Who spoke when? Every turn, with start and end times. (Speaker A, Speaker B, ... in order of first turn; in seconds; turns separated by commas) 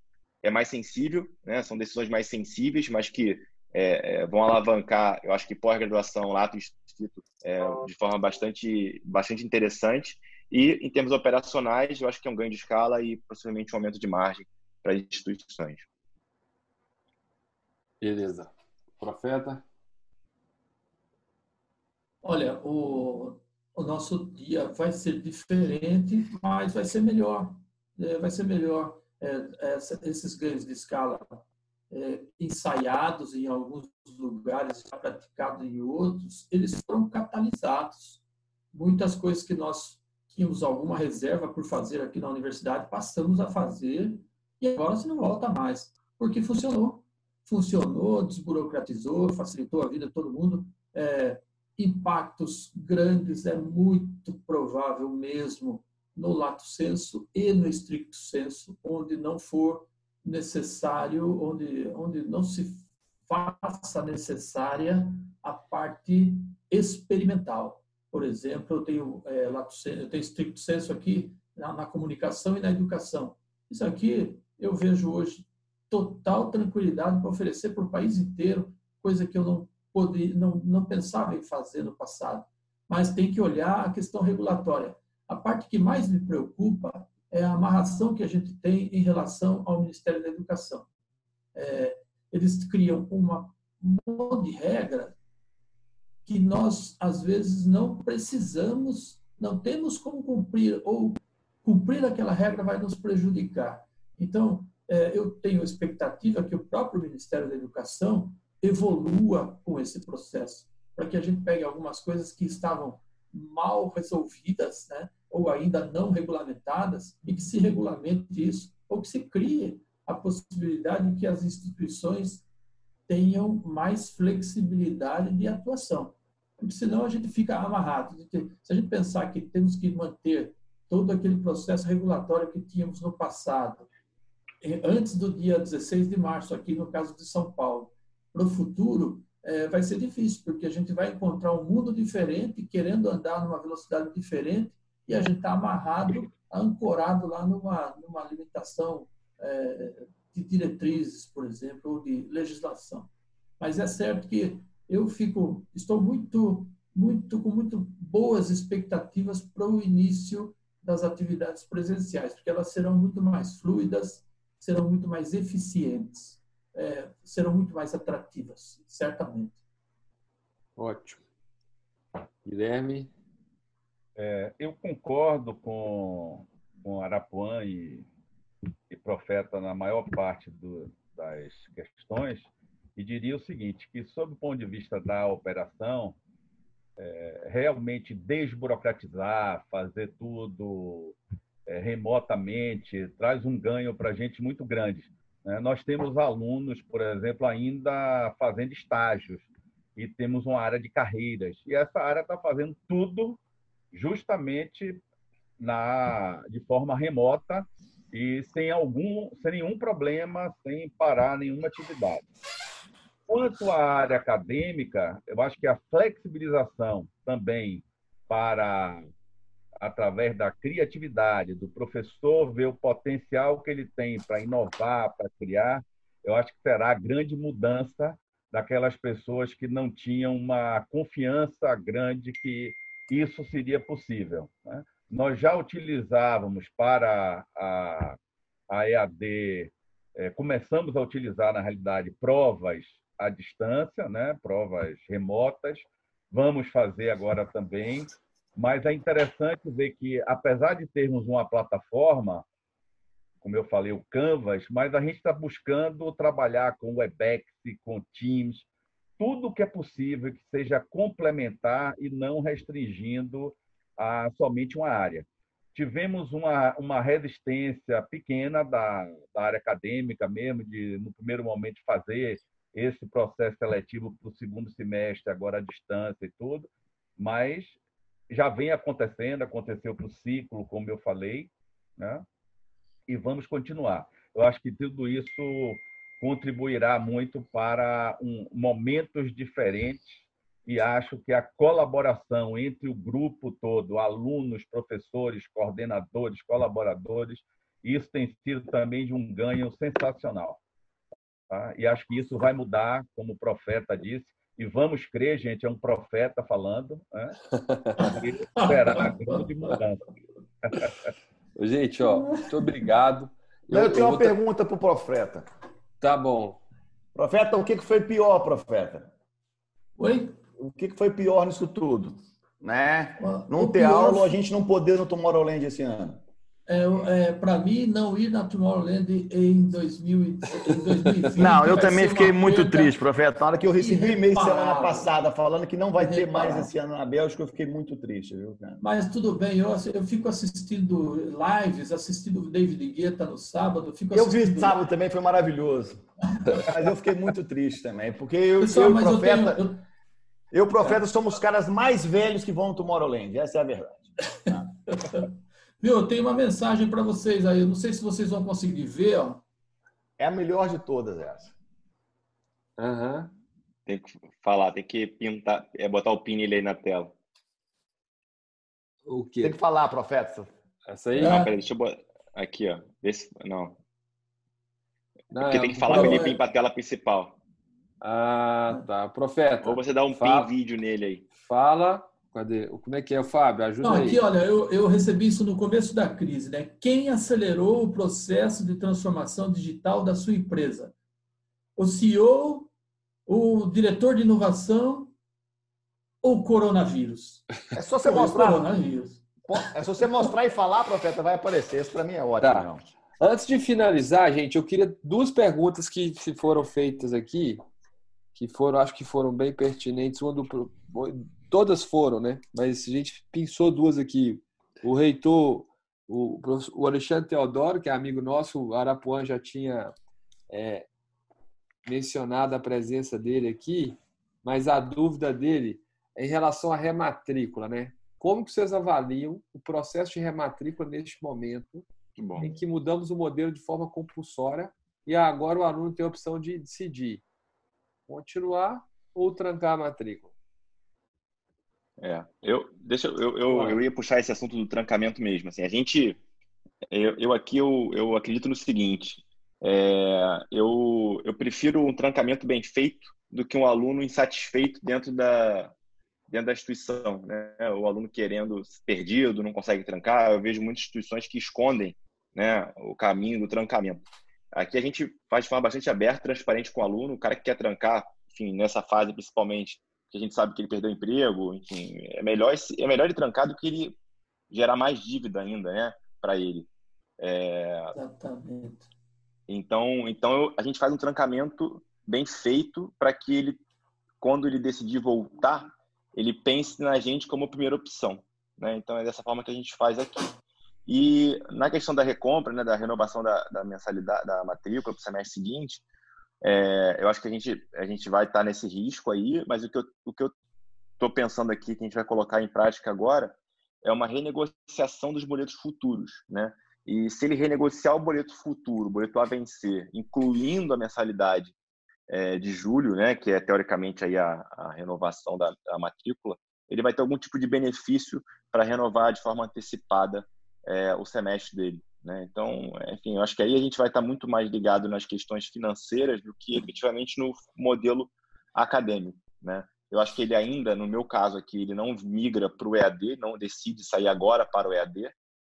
Speaker A: 0.4-15.9, Speaker B: 18.0-19.6, Speaker C: 22.2-38.2, Speaker C: 38.7-90.9, Speaker C: 91.5-95.2, Speaker C: 96.3-122.5, Speaker C: 123.1-133.9, Speaker C: 134.6-169.6, Speaker B: 170.8-171.2, Speaker B: 172.4-173.1, Speaker D: 174.2-178.1, Speaker D: 178.9-186.2, Speaker D: 187.0-203.4, Speaker D: 203.9-205.0, Speaker D: 205.6-212.3, Speaker D: 213.3-219.1, Speaker D: 219.8-238.2, Speaker D: 238.7-252.4, Speaker D: 253.4-258.7, Speaker D: 259.2-277.8, Speaker D: 278.3-282.2, Speaker D: 283.1-300.6, Speaker D: 301.5-307.4, Speaker C: 308.0-309.5, Speaker D: 308.1-310.1, Speaker D: 310.6-310.9, Speaker B: 311.6-314.4, Speaker C: 312.0-312.7, Speaker E: 313.7-315.5, Speaker B: 316.0-316.6, Speaker E: 317.1-319.1, Speaker C: 320.0-320.4, Speaker E: 320.6-326.2, Speaker C: 323.2-324.3, Speaker C: 326.7-333.0, Speaker E: 331.4-338.8, Speaker C: 333.8-335.1, Speaker C: 336.0-336.7, Speaker C: 338.8-344.8, Speaker E: 344.1-349.6, Speaker C: 346.4-346.7, Speaker C: 348.6-349.8, Speaker E: 350.5-354.6, Speaker C: 350.8-351.0, Speaker C: 354.5-355.3, Speaker C: 355.8-359.4, Speaker E: 360.2-361.6, Speaker B: 362.8-363.3, Speaker A: 363.9-367.1, Speaker B: 369.1-369.6, Speaker E: 369.4-370.5, Speaker B: 370.9-371.4, Speaker A: 371.2-373.8, Speaker C: 371.2-371.5, Speaker B: 375.3-376.4, Speaker A: 375.4-377.4, Speaker C: 375.9-376.3, Speaker B: 378.0-380.5, Speaker A: 379.6-381.3, Speaker B: 381.3-384.2, Speaker C: 383.8-390.9, Speaker C: 391.8-392.7, Speaker C: 393.3-395.1, Speaker C: 396.2-397.4, Speaker E: 397.8-398.7, Speaker C: 398.0-399.2, Speaker E: 399.4-402.8, Speaker B: 402.4-402.7, Speaker B: 403.2-407.6, Speaker B: 408.3-419.9, Speaker B: 420.5-420.9, Speaker B: 421.9-431.9, Speaker A: 432.2-432.5, Speaker B: 432.4-437.2, Speaker B: 438.1-440.3, Speaker A: 442.0-446.2, Speaker B: 443.5-443.8, Speaker A: 446.9-455.7, Speaker A: 456.3-474.0, Speaker A: 474.5-477.9, Speaker C: 477.9-478.9, Speaker A: 479.5-483.6, Speaker A: 484.2-490.3, Speaker A: 490.9-495.8, Speaker A: 496.4-500.3, Speaker A: 501.0-511.5, Speaker A: 512.1-535.1